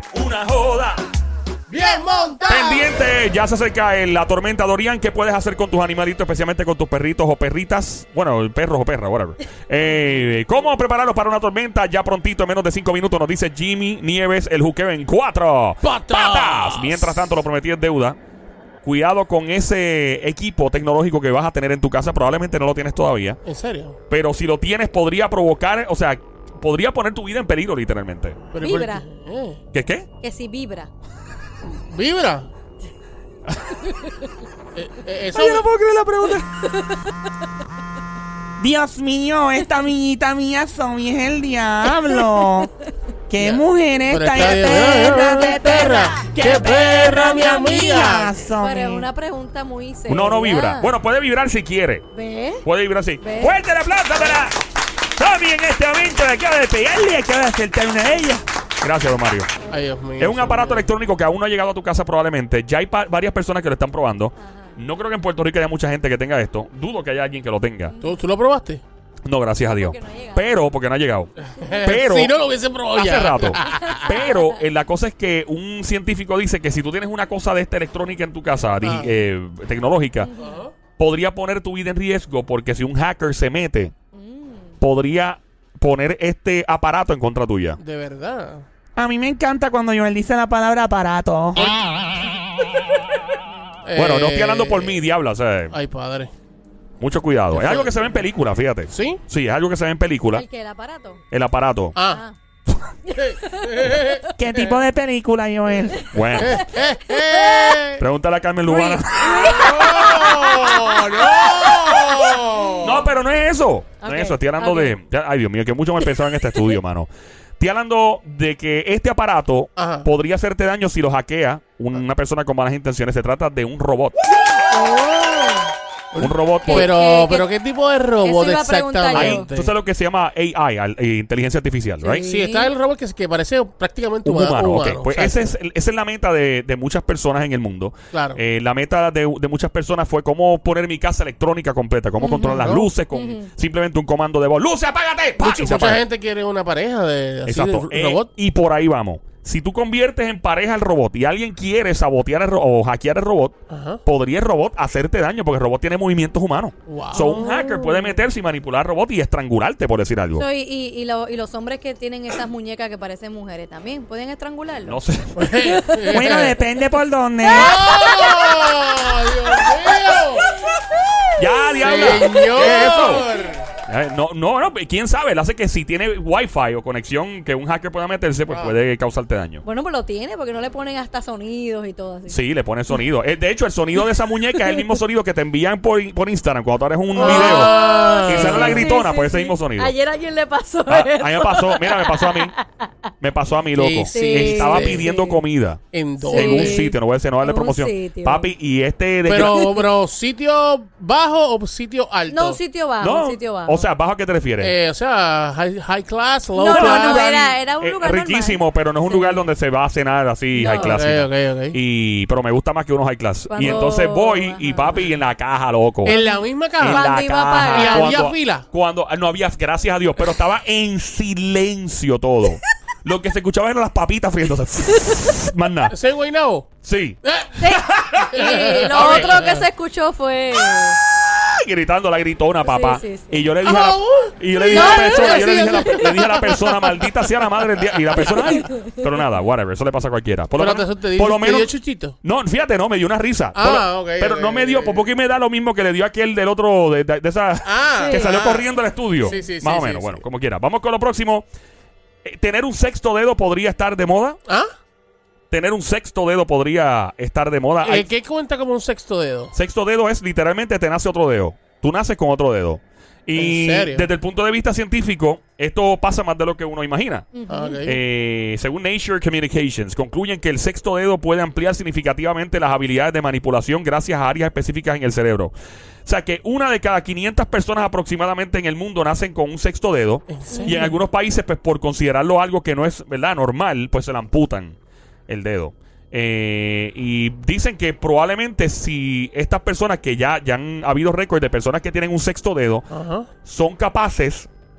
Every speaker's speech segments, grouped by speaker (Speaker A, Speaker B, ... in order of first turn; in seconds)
Speaker A: 0.1-1.1, 2.5-18.2, 18.8-23.4, 24.1-28.4, 29.7-30.1, 36.0-36.3, 50.1-52.1, 52.6-54.6, 55.2-59.5, 60.2-68.0, 69.3-71.3, 71.8-72.3, 72.9-80.3, 81.0-83.9, 84.8-87.8, 93.9-95.8, 97.0-100.5, 101.3-102.0, 106.1-106.7, 107.9-110.0, 112.8-124.2, 126.2-126.9, 129.1-132.3, 134.2-146.0, 147.5-160.4, 164.8-165.6, 171.4-173.3, 173.8-179.6, 182.3-187.8, 188.3-189.9, 190.9-192.5, 193.2-199.7, 203.0-204.7, 206.7-216.2, 216.8-225.9, 226.8-229.5, 231.0-241.7, 242.2-251.5, 252.2-254.4, 255.5-258.1, 259.5-267.3, 267.8-275.5, 276.1-284.8, 285.3-292.9, 293.4-294.5
Speaker B: 1.7-3.0, 15.8-17.2, 23.4-24.0, 28.5-29.6, 31.6-32.5, 34.8-35.7, 43.4-48.4, 59.7-60.9, 68.0-68.8, 71.5-74.1, 78.8-79.1, 80.4-80.7, 87.8-88.7, 93.8-95.0, 95.7-96.3, 97.5-98.2, 98.9-99.2, 102.0-102.2, 103.7-104.8, 106.4-108.0, 109.4-113.1, 119.8-120.1, 126.1-129.7, 132.2-135.5, 138.1-138.4, 142.2-142.9, 145.4-148.3, 153.7-154.0, 156.9-157.5, 165.4-166.6, 167.5-170.5, 171.8-173.7, 178.5-178.8, 187.2-188.8, 193.8-195.1, 195.9-196.8, 199.3-202.6, 204.6-207.3, 210.7-211.8, 216.1-217.1, 217.7-218.7, 225.9-226.7, 227.2-227.8, 228.3-229.6, 233.6-238.7, 240.6-242.2, 243.6-245.1, 247.6-250.2, 257.8-259.5, 263.4-264.1, 267.5-268.0, 280.3-280.9, 292.9-293.3
Speaker C: 28.6-29.1, 30.2-30.9, 48.6-50.9, 52.1-52.6, 53.2-53.6, 64.4-64.8, 67.9-68.2, 69.7-70.6, 73.6-74.6, 80.2-80.6, 84.1-84.8, 100.3-101.2, 102.0-102.4, 103.1-104.2, 106.7-107.7, 108.7-110.9, 114.0-115.0, 124.7-125.7, 126.6-127.5, 128.2-129.5, 132.0-132.7, 143.1-143.5, 157.2-158.2, 160.3-165.0, 165.7-166.2, 167.4-170.2, 172.1-172.4, 179.6-182.4, 187.2-192.6, 194.1-195.4, 196.2-198.5, 199.4-199.8, 202.3-203.9, 206.6-209.4, 210.5-211.0, 213.5-215.2, 216.1-218.2, 227.6-231.0, 232.6-233.5, 234.7-236.1, 238.3-238.8, 248.0-248.3, 267.4-267.8, 280.5-281.0
Speaker D: 35.4-36.4, 38.6-42.7, 43.3-49.1, 89.0-91.7, 104.4-106.1, 166.1-167.8